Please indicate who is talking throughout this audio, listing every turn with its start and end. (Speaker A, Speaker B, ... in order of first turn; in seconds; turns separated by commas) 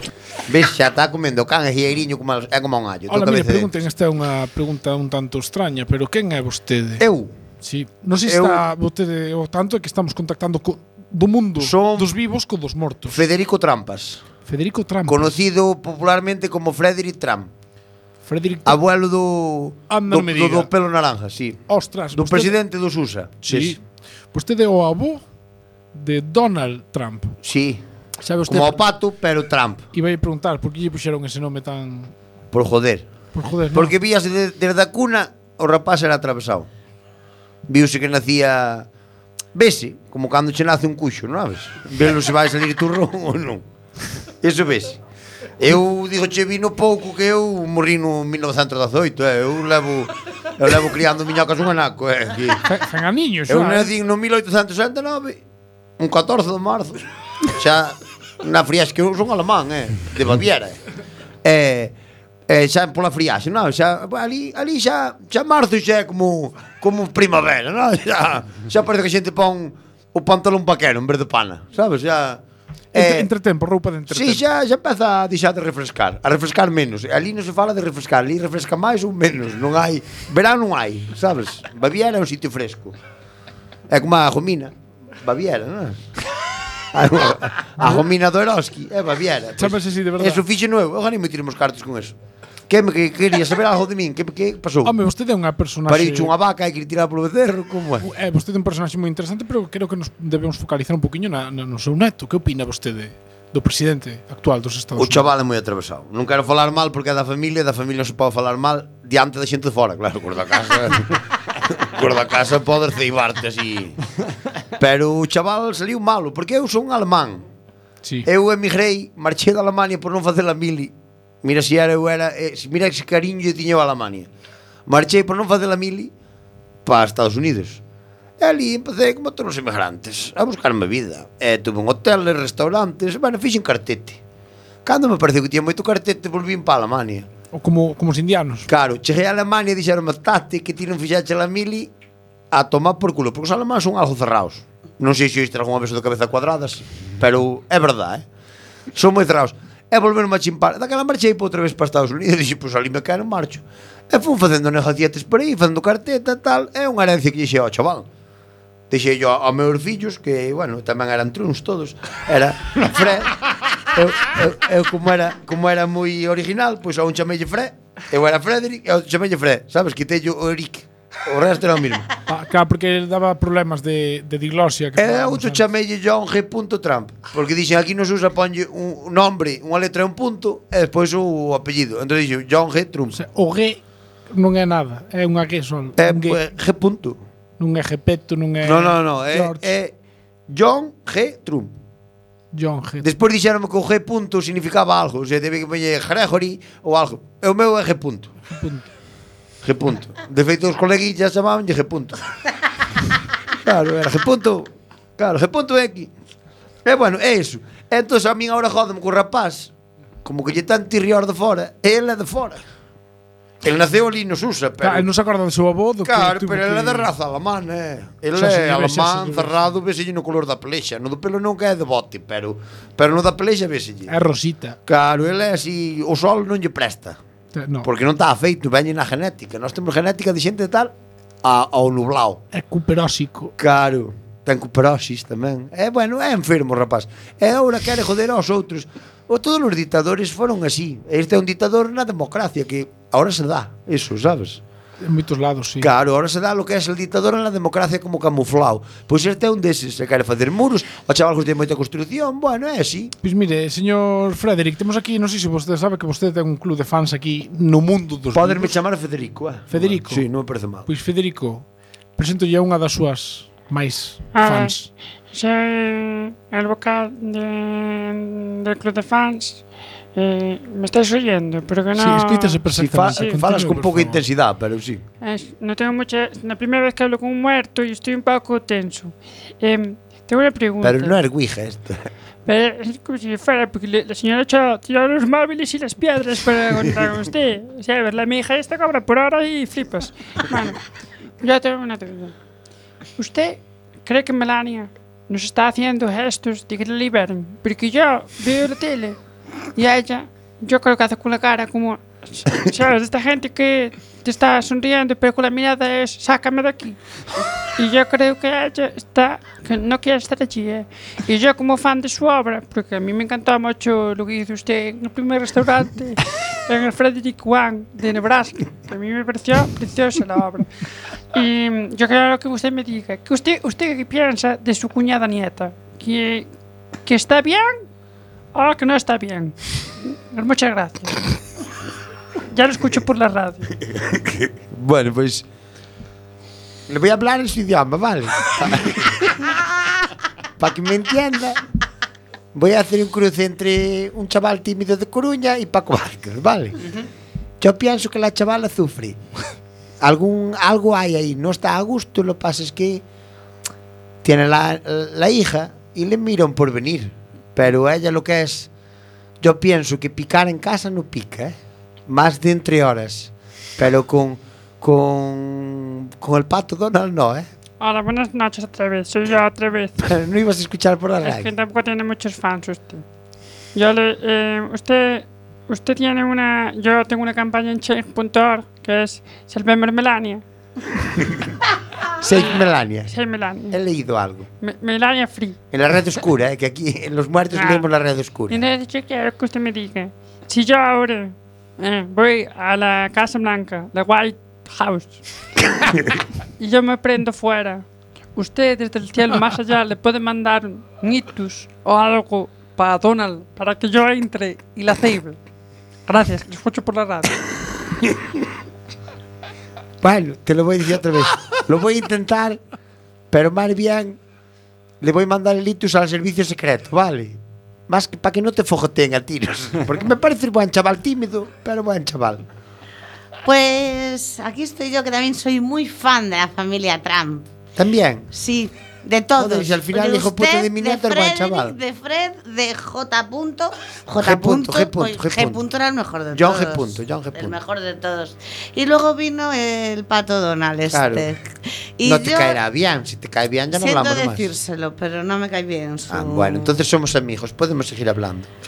Speaker A: 0.5-3.7, Speaker B: 3.1-7.0, Speaker A: 7.0-7.3, Speaker B: 7.6-13.2, Speaker A: 8.2-8.6, Speaker A: 11.6-12.1, Speaker A: 13.1-14.3, Speaker B: 14.5-15.3, Speaker A: 15.1-17.5, Speaker B: 18.2-18.8, Speaker A: 18.7-21.6, Speaker B: 19.9-20.7, Speaker B: 21.7-22.5, Speaker A: 22.1-23.8, Speaker B: 23.4-23.8, Speaker B: 24.3-25.2, Speaker B: 25.9-27.4, Speaker A: 27.4-27.8, Speaker B: 28.2-28.8, Speaker A: 28.5-29.9, Speaker B: 29.9-32.1, Speaker A: 32.5-33.1, Speaker B: 33.3-33.9, Speaker A: 33.7-36.7, Speaker A: 37.7-38.9, Speaker A: 39.5-43.6, Speaker A: 44.4-45.0, Speaker A: 45.6-52.7, Speaker B: 52.7-53.9, Speaker A: 53.5-55.4, Speaker A: 56.0-60.8, Speaker A: 61.4-61.9, Speaker A: 62.5-72.4, Speaker A: 72.9-73.3, Speaker B: 72.9-74.4, Speaker A: 74.1-83.0, Speaker A: 83.9-86.0, Speaker A: 86.9-92.2, Speaker B: 89.6-90.4, Speaker A: 92.7-95.0, Speaker B: 94.8-96.3, Speaker A: 95.9-98.1, Speaker B: 98.0-105.3, Speaker A: 105.0-114.0, Speaker A: 114.8-117.5, Speaker B: 118.0-118.3, Speaker A: 118.2-124.3, Speaker A: 124.9-126.1, Speaker A: 126.8-127.8, Speaker A: 128.4-134.2, Speaker A: 134.8-137.3, Speaker B: 137.5-138.7, Speaker A: 138.7-141.9, Speaker A: 142.5-148.2, Speaker A: 148.9-158.1, Speaker A: 158.9-163.3, Speaker A: 163.9-172.1, Speaker B: 172.3-175.6, Speaker A: 175.0-183.2, Speaker B: 183.1-186.4, Speaker A: 186.0-187.2, Speaker B: 187.6-189.7, Speaker A: 188.6-189.9, Speaker A: 190.5-191.7, Speaker B: 192.5-193.1, Speaker A: 193.0-198.3, Speaker B: 198.5-198.9, Speaker A: 199.6-202.2, Speaker A: 203.6-206.1, Speaker A: 206.8-209.7, Speaker A: 210.2-212.6, Speaker A: 213.6-215.1, Speaker B: 214.8-217.1, Speaker A: 216.1-224.1, Speaker B: 218.3-219.6, Speaker B: 224.1-224.8, Speaker A: 224.9-227.2, Speaker B: 227.6-227.9, Speaker A: 227.8-232.4, Speaker B: 232.5-233.5, Speaker A: 233.6-244.6, Speaker B: 245.0-245.9, Speaker A: 245.8-253.2, Speaker B: 253.2-258.7, Speaker A: 258.3-260.9, Speaker B: 259.7-260.3, Speaker B: 260.9-261.6, Speaker B: 262.2-264.9, Speaker C: 264.3-264.7, Speaker C: 265.3-269.6, Speaker C: 270.1-273.4, Speaker B: 271.9-274.2, Speaker A: 272.7-275.0, Speaker C: 275.2-281.2, Speaker A: 280.8-282.1, Speaker C: 282.5-290.8, Speaker C: 291.4-292.3, Speaker C: 293.2-299.2, Speaker C: 299.8-307.0, Speaker C: 307.8-320.7, Speaker C: 321.3-326.5, Speaker C: 327.1-327.8, Speaker C: 328.5-329.6, Speaker C: 330.3-331.2, Speaker C: 332.5-333.8, Speaker A: 334.1-335.4, Speaker A: 336.9-339.3, Speaker A: 340.6-341.6, Speaker A: 342.5-346.8, Speaker A: 347.6-349.2, Speaker A: 350.0-353.0, Speaker A: 354.2-358.7, Speaker A: 359.4-361.6, Speaker A: 362.1-367.5, Speaker C: 367.8-370.1, Speaker A: 370.0-371.5, Speaker C: 371.2-373.0, Speaker C: 373.8-380.4, Speaker A: 382.2-383.1, Speaker C: 383.1-383.8, Speaker A: 383.7-384.5, Speaker C: 384.6-385.6, Speaker A: 385.7-388.6, Speaker C: 387.5-387.9, Speaker C: 388.5-395.2, Speaker C: 396.6-397.8, Speaker C: 398.4-405.4, Speaker C: 406.1-407.4, Speaker A: 410.0-412.6, Speaker A: 413.3-414.2, Speaker A: 415.0-422.4, Speaker D: 423.4-427.5, Speaker A: 427.8-428.3, Speaker D: 428.3-442.6, Speaker A: 429.4-431.8, Speaker A: 434.2-435.6, Speaker A: 436.3-437.6, Speaker A: 440.9-441.3, Speaker A: 442.1-444.5, Speaker D: 443.7-446.8, Speaker A: 446.1-448.5